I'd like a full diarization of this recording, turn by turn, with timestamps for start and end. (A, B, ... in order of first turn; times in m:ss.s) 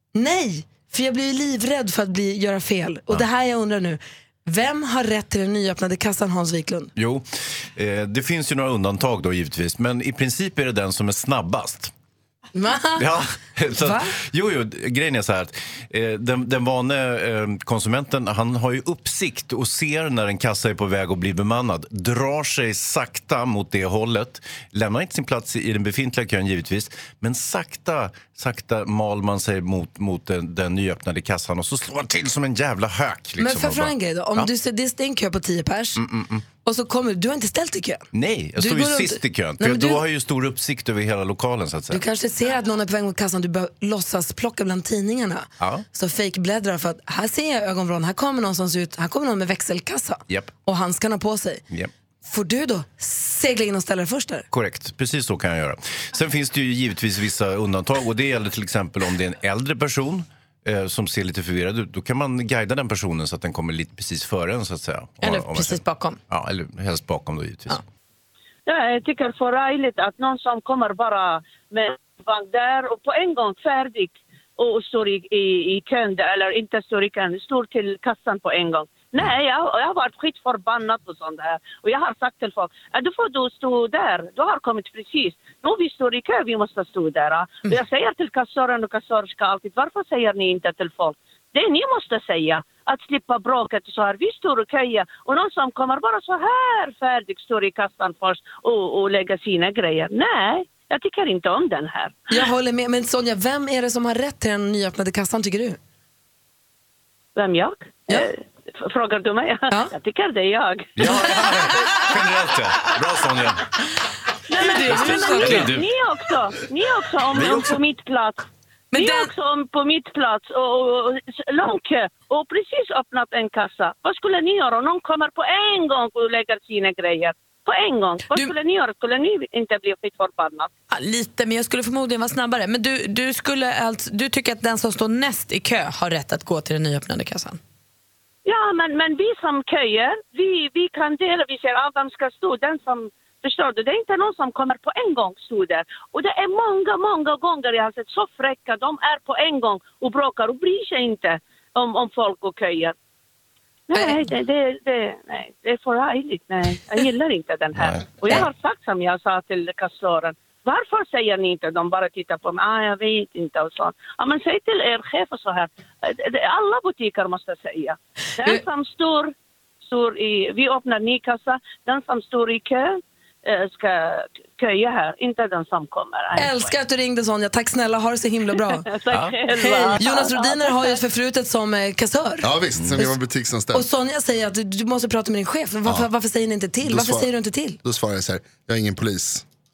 0:00.1-0:06.9 A
0:07.0-0:11.9 B
0:12.5-0:13.0 A
0:13.0-0:34.5 B
0:13.8-0:14.1 A
0:33.4-0:36.0 A
0:36.0-0:36.4 B
0:36.6-0:38.0 A
0:38.1-0:42.0 B
0:38.6-0:40.0 A
0:41.9-0:51.6 A
0:52.2-0:54.5 A
0:54.5-1:07.8 B
1:05.2-1:06.2 C
1:08.7-1:42.2 D
1:42.3-1:45.8 A
1:47.4-1:50.9 D
1:51.0-1:53.6 B
1:54.5-1:58.4 D
1:54.6-1:55.7 C
1:54.8-1:55.9 B
1:57.3-1:57.8 B
1:58.9-1:59.3 C
1:59.0-2:10.7 D
2:10.9-2:17.6 C
2:18.4-2:32.9 D
2:33.9-2:49.3 D
2:33.9-2:34.2 A
2:37.8-2:38.4 B
2:49.8-2:56.7 D
2:56.3-2:58.8 A
2:58.8-3:01.0 D
2:59.1-2:59.4 B
2:59.5-3:03.2 A
3:02.4-3:03.8 E
3:02.8-3:03.0 B
3:03.7-3:07.8 A
3:06.8-3:07.3 E
3:07.8-3:09.4 E